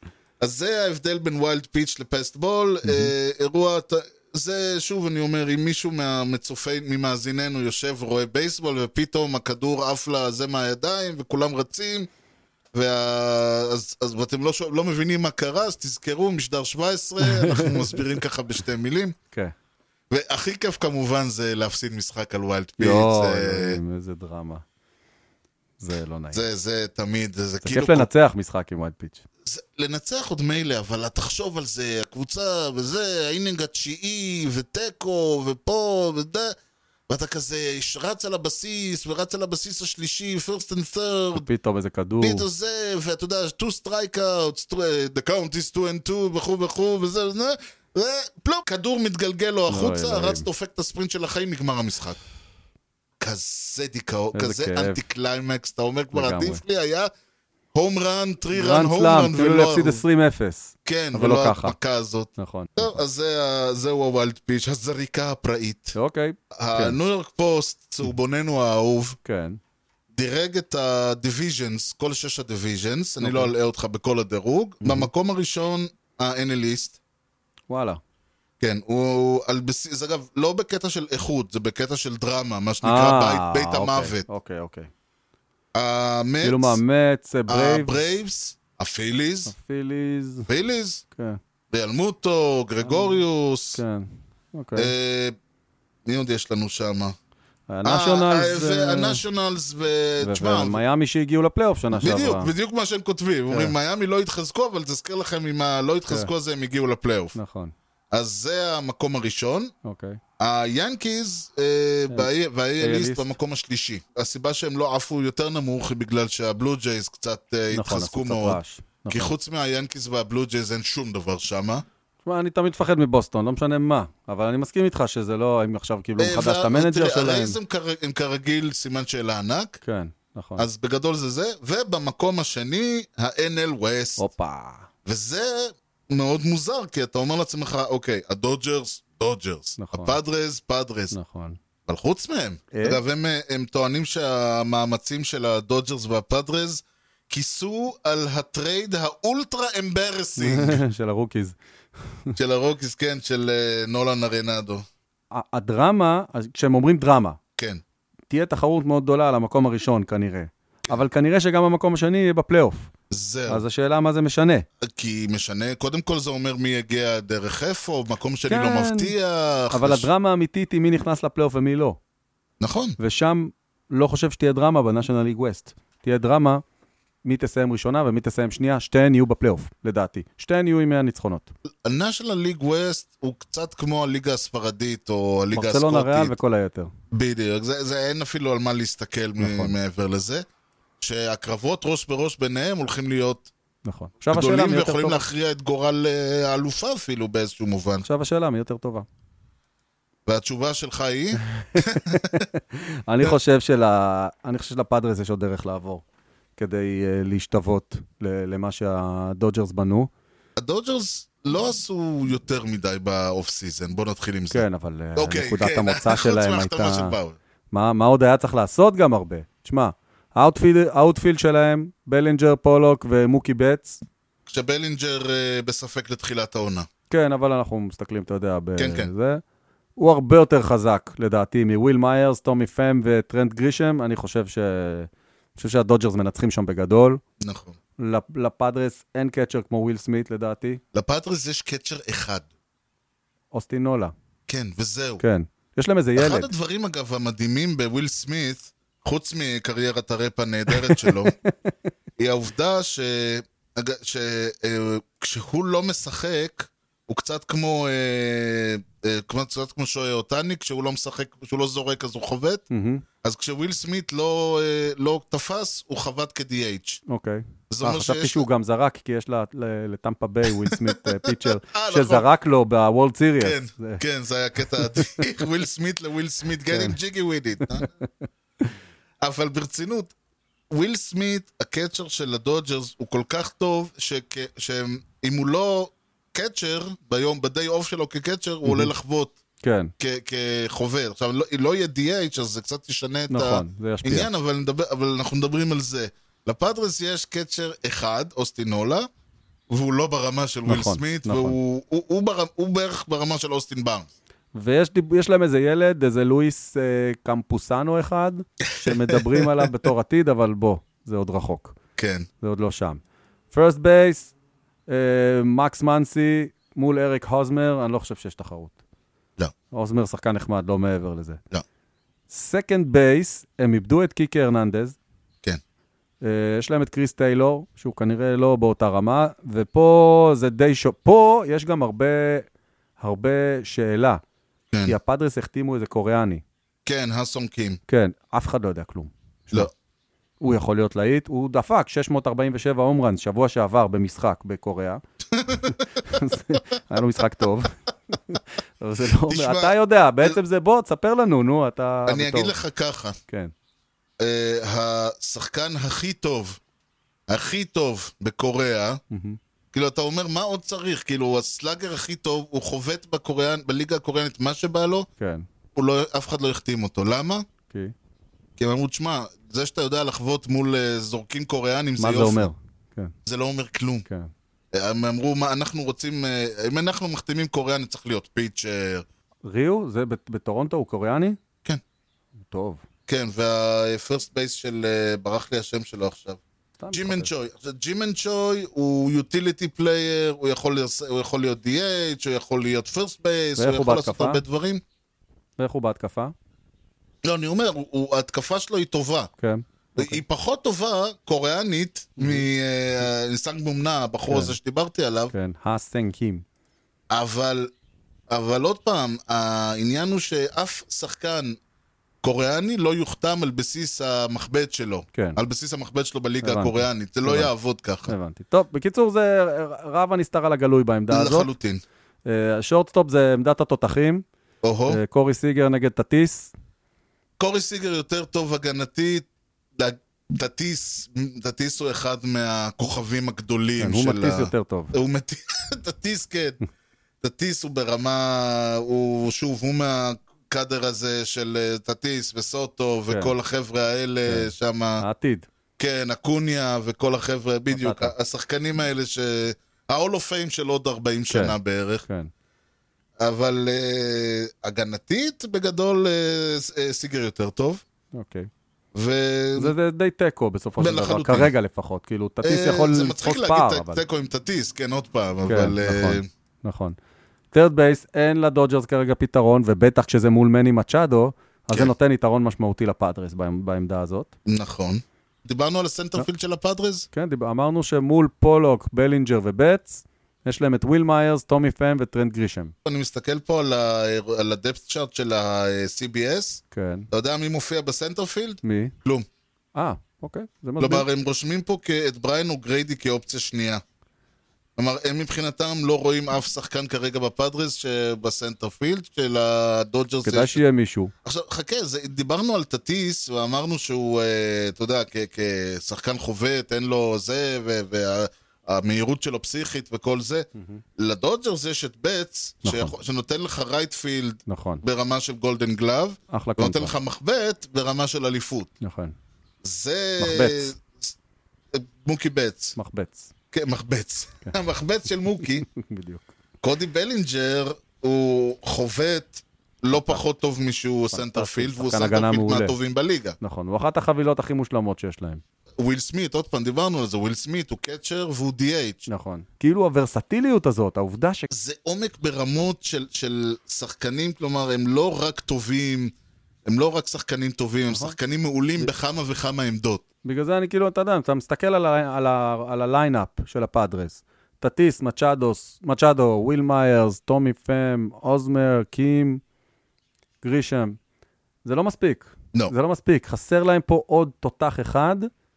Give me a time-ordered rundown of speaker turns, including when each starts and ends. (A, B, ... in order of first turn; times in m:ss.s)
0:00.4-0:12.1 A
0:02.8-0:03.1 B
0:12.7-0:19.2 A
0:17.2-0:18.0 B
0:20.1-0:23.8 A
0:22.8-0:24.6 B
0:25.8-0:26.4 B
0:26.3-0:28.1 A
0:27.6-0:29.2 B
0:29.5-0:36.6 A
0:37.1-0:41.5 A
0:41.4-0:42.5 B
0:42.2-0:52.2 A
0:49.7-0:50.5 B
0:53.2-0:57.1 A
0:54.3-0:55.0 B
0:56.1-0:56.6 B
0:57.7-1:00.0 A
0:58.5-1:01.8 B
1:00.8-1:06.0 A
1:02.4-1:03.0 B
1:06.0-1:07.0 B
1:06.6-1:09.2 A
1:09.2-1:09.6 B
1:10.1-1:17.0 A
1:13.2-1:13.5 B
1:14.8-1:15.1 B
1:17.7-1:18.0 B
1:18.6-1:24.3 A
1:22.8-1:24.9 B
1:25.8-1:26.8 A
1:26.4-1:28.1 B
1:27.5-1:29.6 A
1:29.5-1:30.5 B
1:30.5-1:31.0 A
1:31.1-1:31.4 B
1:31.7-1:33.8 A
1:32.8-1:33.2 B
1:33.8-1:34.9 B
1:34.8-1:35.4 A
1:36.1-1:37.2 A
1:37.7-1:39.2 B
1:37.8-1:40.8 A
1:40.2-1:42.5 B
1:42.0-1:47.4 A
1:43.5-1:43.8 B
1:47.4-1:47.7 B
1:48.1-1:49.7 A
1:49.8-1:50.2 B
1:50.4-2:01.8 A
1:52.1-1:53.3 B
1:57.7-1:59.3 B
2:02.2-2:07.6 B
2:06.2-2:09.8 A
2:09.8-2:10.7 B
2:10.6-2:14.2 A
2:14.2-2:14.9 B
2:15.1-2:21.2 A
2:19.8-2:20.2 B
2:21.1-2:21.6 B
2:21.9-2:30.8 A
2:22.7-2:23.0 B
2:30.4-2:31.6 B
2:32.1-2:32.4 B
2:32.4-2:34.8 A
2:35.3-2:37.4 B
2:38.3-2:42.9 B
2:43.1-2:43.6 A
2:43.5-2:44.7 B
2:44.8-2:50.1 A
2:48.5-2:49.2 B
2:49.7-2:52.0 B
2:52.6-2:53.0 A
2:53.0-2:56.6 B
2:57.2-3:01.5 B
3:01.8-3:06.4 A
3:05.5-3:06.9 B
3:07.1-3:10.4 A
3:09.4-3:09.8 B
3:11.0-3:13.5 A
3:13.8-3:15.3 B
3:14.3-3:18.1 A
3:18.0-3:19.1 B
3:20.3-3:22.4 A
3:21.4-3:26.0 B
3:26.6-3:30.1 B
3:30.6-3:34.6 A
3:34.5-3:37.2 B
3:35.2-3:37.4 A
3:37.7-3:44.0 B
3:44.5-3:46.9 A
3:47.1-3:49.4 B
3:48.8-3:49.1 A
3:50.0-3:57.2 B
3:57.4-3:57.8 A
3:58.0-4:00.8 B
4:00.9-4:02.5 A
4:03.5-4:04.1 B
4:04.5-4:05.2 A
4:05.2-4:06.5 B
4:06.2-4:11.3 A
4:10.7-4:11.7 B
4:12.2-4:22.6 A
4:22.7-4:23.0 B
4:23.2-4:27.0 A
4:27.1-4:34.0 B
4:27.7-4:28.5 A
4:30.5-4:32.3 A
4:33.4-4:37.9 A
4:34.7-4:35.3 B
4:36.7-4:37.0 B
4:39.2-4:40.1 A
4:40.7-4:49.4 A
4:48.6-4:48.9 B
4:49.6-4:49.9 B
4:50.0-4:59.1 A
4:53.3-4:54.3 B
4:59.7-5:04.1 A
5:00.7-5:01.6 B
5:04.5-5:11.8 B
5:08.6-5:09.7 A
5:12.0-5:12.3 A
5:12.4-5:13.0 B
5:13.5-5:14.3 B
5:14.9-5:18.8 B
5:19.7-5:21.4 B
5:22.3-5:25.0 B
5:26.2-5:32.5 B
5:33.0-5:34.2 B
5:34.9-5:36.4 B
5:36.9-5:37.8 A
5:37.9-5:39.7 B
5:40.4-5:45.0 B
5:45.3-5:46.1 A
5:45.6-5:52.6 B
5:49.2-5:50.4 A
5:52.1-5:53.2 A
5:53.3-5:53.5 B
5:54.2-5:56.6 A
5:57.3-5:59.0 A
5:59.1-5:59.4 B
5:59.7-6:05.1 A
6:05.2-6:05.5 B
6:05.8-6:07.5 A
6:08.6-6:12.5 A
6:12.0-6:13.1 B
6:13.2-6:14.1 A
6:14.1-6:14.3 B
6:14.7-6:19.0 A
6:19.4-6:21.4 B
6:22.4-6:22.8 B
6:23.1-6:26.4 A
6:26.8-6:27.3 B
6:26.9-6:34.8 A
6:33.6-6:34.4 B
6:35.6-6:36.3 B
6:37.2-6:39.3 A
6:39.4-6:40.2 B
6:40.0-6:45.3 A
6:42.2-6:42.5 B
6:44.3-6:44.6 B
6:45.3-6:46.4 B
6:47.1-6:47.7 A
6:48.3-6:51.6 A
6:52.2-6:58.1 A
6:55.1-6:55.4 B
6:56.4-6:57.5 B
6:58.1-7:01.5 B
7:01.1-7:01.8 A
7:02.3-7:04.2 B
7:04.6-7:05.0 A
7:04.9-7:06.5 B
7:07.4-7:16.6 A
7:13.8-7:14.9 B
7:17.2-7:25.0 A
7:23.1-7:23.3 B
7:24.3-7:25.5 B
7:25.8-7:32.0 A
7:27.7-7:28.1 B
7:31.3-7:32.3 B
7:33.2-7:37.8 A
7:38.1-7:38.5 B
7:39.0-7:39.7 A
7:39.6-7:44.0 B
7:40.8-7:41.5 A
7:42.4-7:46.3 A
7:45.5-7:47.0 B
7:47.5-7:54.3 B
7:54.5-7:57.1 A
7:57.1-8:02.7 B
8:02.8-8:09.3 A
8:06.7-8:07.1 B
8:08.6-8:08.9 B
8:09.8-8:11.1 B
8:10.8-8:13.8 A
8:14.8-8:20.6 A
8:20.2-8:21.1 B
8:21.2-8:30.5 A
8:31.0-8:38.7 A
8:32.6-8:32.9 B
8:34.5-8:34.8 B
8:36.3-8:36.9 B
8:38.8-8:39.2 B
8:39.6-8:41.1 A
8:40.2-8:40.7 B
8:41.7-8:42.8 A
8:42.8-8:43.3 B
8:43.5-8:45.7 A
8:45.4-8:46.3 B
8:46.6-8:53.4 A
8:49.9-8:50.2 B
8:51.1-8:52.8 B
8:53.4-8:55.4 B
8:55.8-8:59.1 A
8:59.1-9:01.5 B
9:01.5-9:06.1 A
9:06.7-9:10.0 A
9:07.9-9:08.2 B
9:10.2-9:19.4 B
9:20.4-9:21.0 B
9:21.6-9:25.3 B